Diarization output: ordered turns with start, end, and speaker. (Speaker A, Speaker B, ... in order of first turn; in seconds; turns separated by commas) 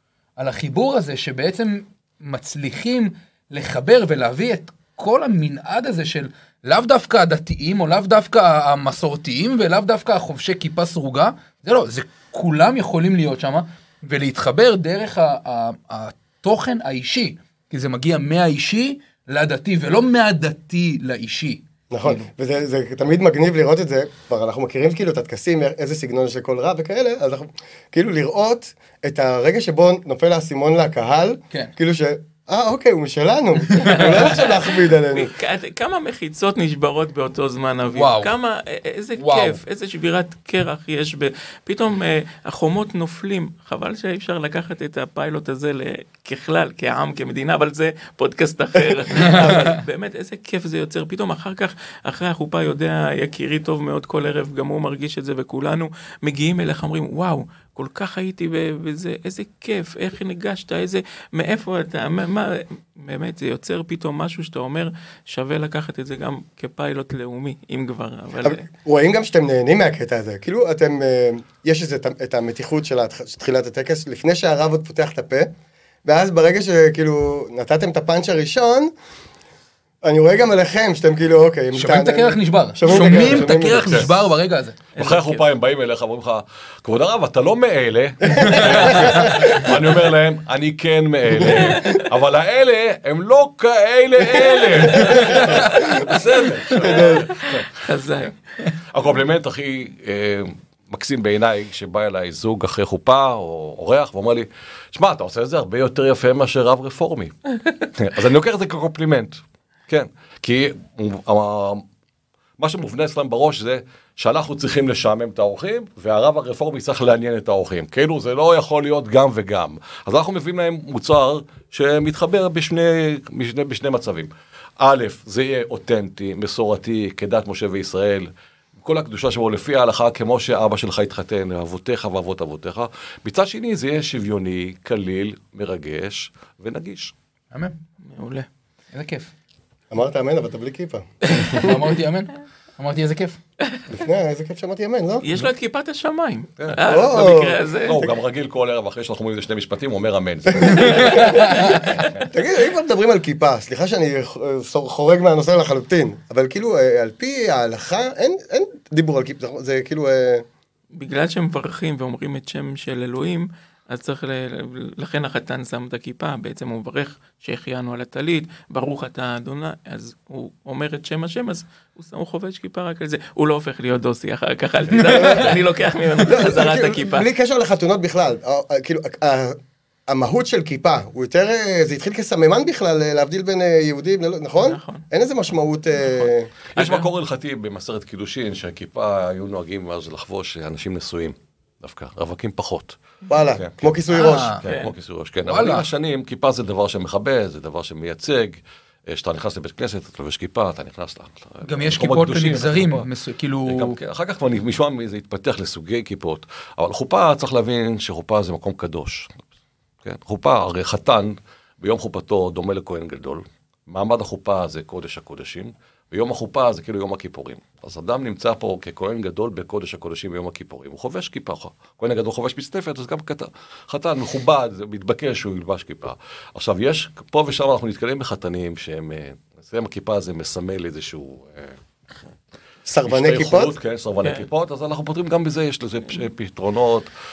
Speaker A: 0.4-22.3, Speaker B: 21.9-35.3, Speaker C: 33.8-68.7, Speaker A: 37.9-38.3, Speaker A: 39.2-39.6, Speaker A: 49.2-49.8, Speaker B: 49.2-49.7, Speaker B: 68.4-75.5, Speaker B: 76.0-78.9, Speaker B: 80.0-84.1, Speaker A: 81.7-84.8, Speaker D: 83.8-84.1, Speaker C: 85.0-85.5, Speaker D: 85.0-97.7, Speaker B: 88.2-89.7, Speaker A: 88.5-89.3, Speaker B: 95.0-96.0, Speaker A: 95.2-95.7, Speaker C: 95.2-95.5, Speaker B: 96.8-97.3, Speaker C: 96.9-97.2, Speaker C: 97.7-98.3, Speaker D: 98.9-107.3, Speaker D: 107.9-111.8, Speaker D: 112.6-137.1, Speaker C: 138.1-138.5, Speaker A: 138.9-139.3, Speaker B: 139.9-141.8, Speaker A: 141.6-143.4, Speaker B: 143.9-145.2, Speaker C: 145.2-148.1, Speaker B: 146.8-147.6, Speaker D: 147.8-152.1, Speaker B: 150.5-160.4, Speaker A: 150.9-151.8, Speaker C: 160.9-177.3, Speaker B: 176.2-179.6, Speaker B: 180.1-186.5, Speaker C: 184.6-185.1, Speaker C: 186.8-187.1, Speaker D: 186.8-193.0, Speaker B: 193.3-194.6, Speaker D: 193.6-203.1, Speaker A: 194.1-194.6, Speaker C: 194.6-194.9, Speaker A: 195.5-195.9, Speaker A: 201.7-204.0, Speaker D: 203.7-209.4, Speaker D: 210.0-231.8, Speaker B: 232.9-233.7, Speaker D: 233.1-237.1